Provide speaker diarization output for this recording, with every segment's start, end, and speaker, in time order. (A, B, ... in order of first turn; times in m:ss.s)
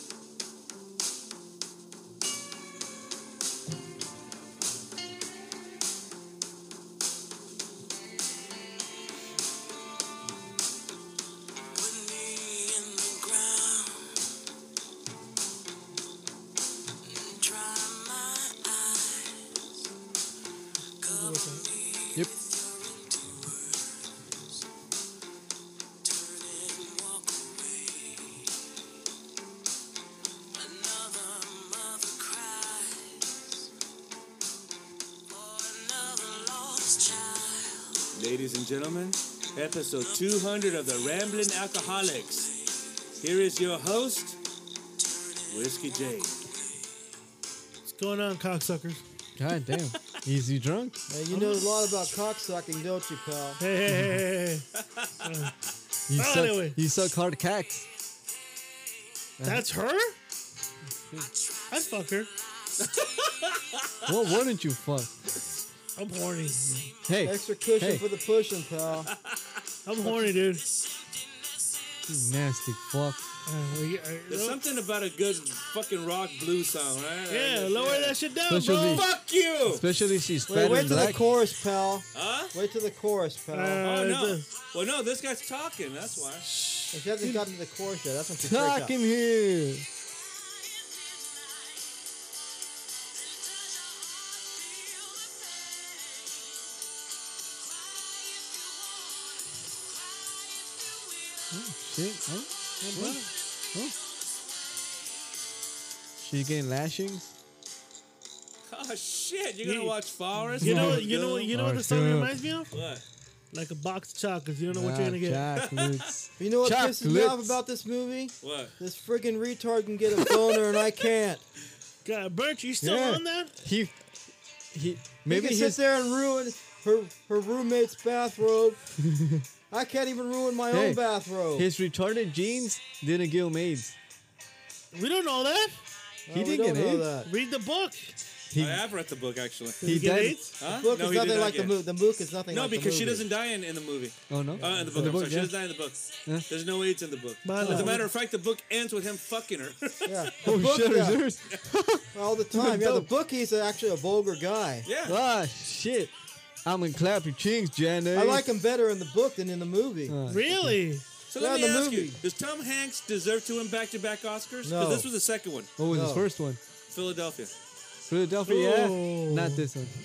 0:11.7-0:14.2 A
0:17.0-0:19.6 A
0:21.0-0:24.3 A
0:21.1-0:21.6 B
0:26.0-0:28.5 A
0:30.5-0:33.6 A
0:35.3-0:38.2 A
0:38.1-0:42.5 C
0:40.0-0:43.3 A
0:43.2-0:44.4 C
0:45.0-0:47.1 A
0:45.5-0:46.4 C
0:47.9-0:49.0 B
0:49.4-0:51.6 D
0:51.1-0:53.6 E
0:53.6-0:54.6 B
0:54.8-0:55.1 C
0:55.2-0:55.5 B
0:56.1-0:57.9 D
0:56.2-0:56.8 B
0:59.4-0:59.7 D
0:59.4-1:00.2 B
1:01.2-1:03.9 A
1:01.7-1:02.3 B
1:02.8-1:03.8 C
1:04.1-1:05.1 D
1:06.0-1:06.7 B
1:06.4-1:07.2 A
1:06.8-1:08.0 D
1:07.2-1:09.1 E
1:09.8-1:10.6 B
1:10.0-1:12.3 A
1:12.1-1:13.2 D
1:13.5-1:14.6 B
1:14.3-1:18.2 C
1:17.3-1:19.0 B
1:18.5-1:19.1 D
1:18.8-1:19.8 C
1:19.7-1:21.2 D
1:20.5-1:23.8 E
1:22.1-1:22.5 C
1:23.5-1:24.5 B
1:23.8-1:26.4 C
1:26.5-1:26.9 B
1:26.9-1:28.9 E
1:28.4-1:29.9 D
1:30.1-1:32.3 A
1:33.1-1:36.8 A
1:37.4-1:41.6 A
1:41.5-1:43.2 D
1:42.8-1:43.3 B
1:42.8-1:45.5 A
1:46.2-1:47.4 D
1:48.7-1:51.5 C
1:49.6-1:49.9 B
1:50.6-1:52.7 B
1:50.6-1:52.4 D
1:52.7-1:53.0 C
1:53.5-1:55.5 B
1:54.7-1:57.6 D
1:55.6-1:56.1 C
1:56.4-2:01.4 E
1:58.4-1:58.7 C
2:02.0-2:03.5 B
2:02.8-2:04.0 D
2:04.7-2:05.8 D
2:05.3-2:08.8 E
2:09.0-2:09.4 D
2:09.7-2:11.7 E
2:10.7-2:11.0 D
2:11.5-2:14.0 D
2:14.9-2:15.8 B
2:16.3-2:17.3 E
2:16.3-2:17.1 D
2:17.3-2:18.2 B
2:18.5-2:18.8 D
2:18.6-2:19.8 C
2:19.8-2:20.4 D
2:19.8-2:20.6 B
2:20.6-2:21.8 C
2:20.7-2:23.3 E
2:22.5-2:30.3 C
2:24.3-2:25.6 D
2:24.6-2:25.2 E
2:27.4-2:28.0 B
2:27.6-2:27.9 D
2:30.0-2:31.2 E
2:30.4-2:33.1 D
2:32.1-2:34.9 E
2:34.8-2:35.2 C
2:35.1-2:36.1 D
2:36.6-2:38.5 D
2:38.1-2:40.2 E
2:40.1-2:40.8 D
2:40.3-2:41.0 B
2:41.3-2:45.7 C
2:41.4-2:42.2 E
2:44.6-2:45.1 E
2:45.8-2:46.6 D
2:45.9-2:46.2 E
2:46.9-2:47.5 C
2:48.1-2:49.9 D
2:48.5-2:49.7 B